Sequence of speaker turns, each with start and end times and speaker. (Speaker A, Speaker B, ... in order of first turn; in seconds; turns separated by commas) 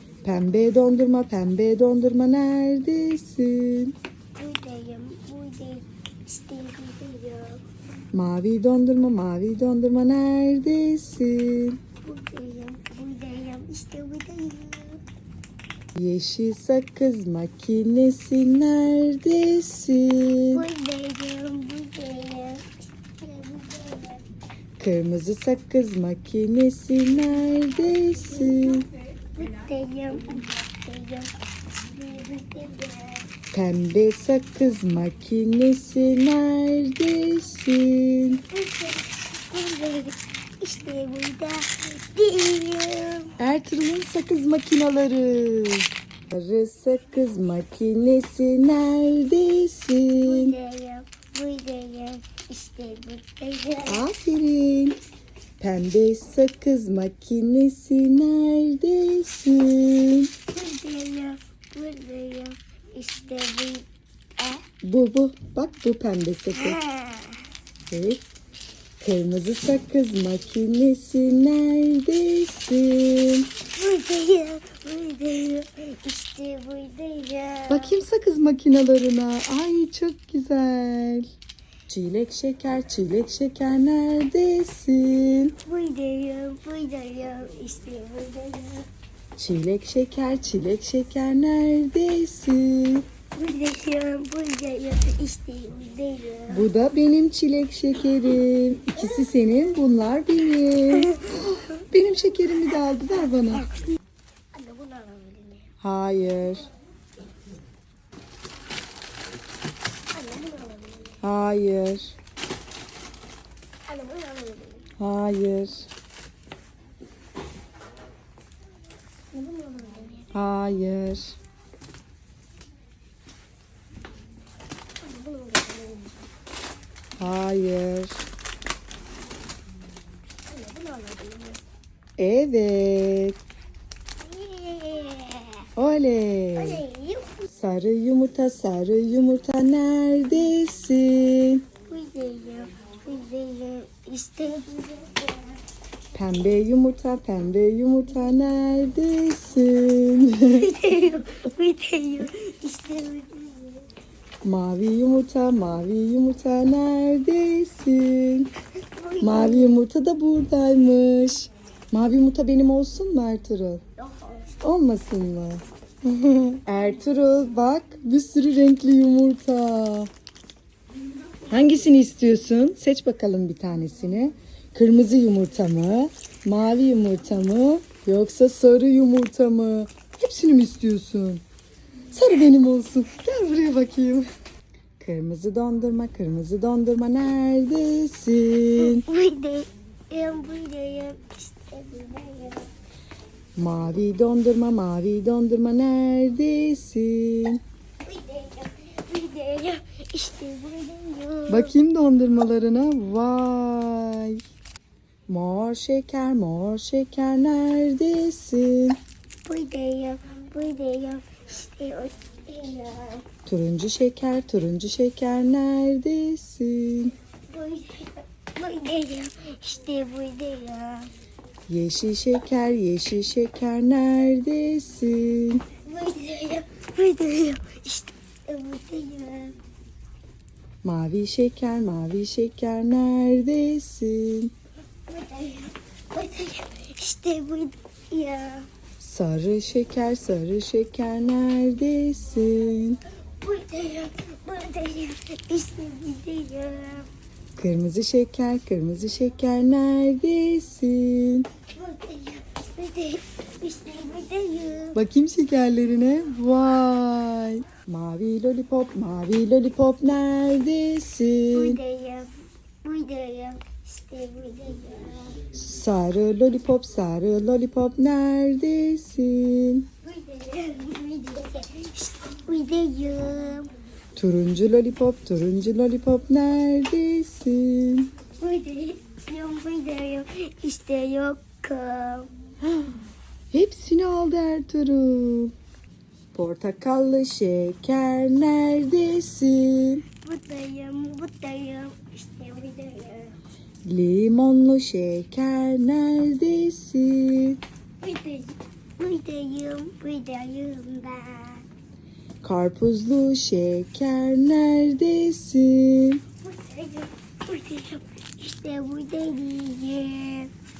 Speaker A: 0.2-3.9, Speaker B: 4.3-7.6, Speaker A: 8.1-11.8, Speaker B: 12.0-15.0, Speaker A: 15.9-20.6, Speaker B: 20.5-22.7, Speaker B: 23.2-24.2, Speaker A: 24.8-28.9, Speaker B: 29.3-33.3, Speaker A: 33.5-38.4, Speaker B: 38.5-43.3, Speaker A: 43.4-50.5, Speaker B: 50.2-54.0, Speaker A: 53.9-55.0, Speaker A: 55.6-60.3, Speaker B: 60.5-63.9, Speaker B: 64.4-64.6, Speaker A: 64.8-66.8, Speaker B: 66.5-67.4, Speaker A: 67.9-68.2, Speaker A: 69.0-73.5, Speaker B: 73.7-78.0, Speaker A: 77.7-81.3, Speaker A: 81.9-85.5, Speaker B: 85.6-88.9, Speaker A: 89.4-93.0, Speaker B: 93.3-96.7, Speaker A: 96.5-103.7, Speaker B: 104.5-105.7, Speaker A: 105.8-106.7, Speaker B: 110.1-111.2, Speaker A: 111.2-112.1, Speaker B: 113.9-114.8, Speaker A: 115.0-115.9, Speaker B: 119.3-120.3, Speaker A: 120.3-121.3, Speaker B: 125.0-126.2, Speaker A: 127.2-128.2, Speaker B: 130.5-131.6, Speaker A: 132.2-133.4, Speaker B: 134.2-135.7, Speaker A: 135.8-136.8, Speaker B: 136.6-137.4, Speaker A: 137.5-141.6, Speaker B: 141.9-145.6, Speaker A: 146.1-150.7, Speaker B: 150.6-153.9, Speaker A: 154.4-158.5, Speaker B: 158.9-159.8, Speaker A: 159.2-163.8, Speaker B: 164.0-164.5, Speaker A: 164.6-170.1, Speaker A: 171.5-181.4, Speaker A: 182.1-184.2, Speaker A: 185.0-189.0, Speaker B: 188.8-192.7, Speaker A: 193.6-197.6, Speaker B: 198.0-201.7, Speaker A: 201.5-204.4, Speaker A: 205.3-209.0, Speaker B: 209.4-213.2, Speaker A: 213.4-217.1, Speaker B: 217.5-221.1, Speaker A: 221.7-225.6, Speaker B: 225.8-229.5, Speaker A: 230.8-234.5, Speaker B: 235.1-238.7, Speaker A: 239.0-243.0, Speaker B: 243.4-247.1, Speaker A: 247.6-251.5, Speaker B: 251.7-255.0, Speaker A: 254.9-261.8, Speaker B: 261.5-262.3, Speaker B: 262.8-265.4, Speaker A: 265.5-269.9, Speaker B: 270.0-273.7, Speaker A: 274.1-278.1, Speaker B: 278.4-282.3, Speaker A: 283.5-285.5, Speaker A: 286.3-290.0, Speaker B: 290.2-293.4, Speaker A: 293.8-297.6, Speaker B: 298.0-301.6, Speaker A: 302.4-306.2, Speaker B: 306.4-310.5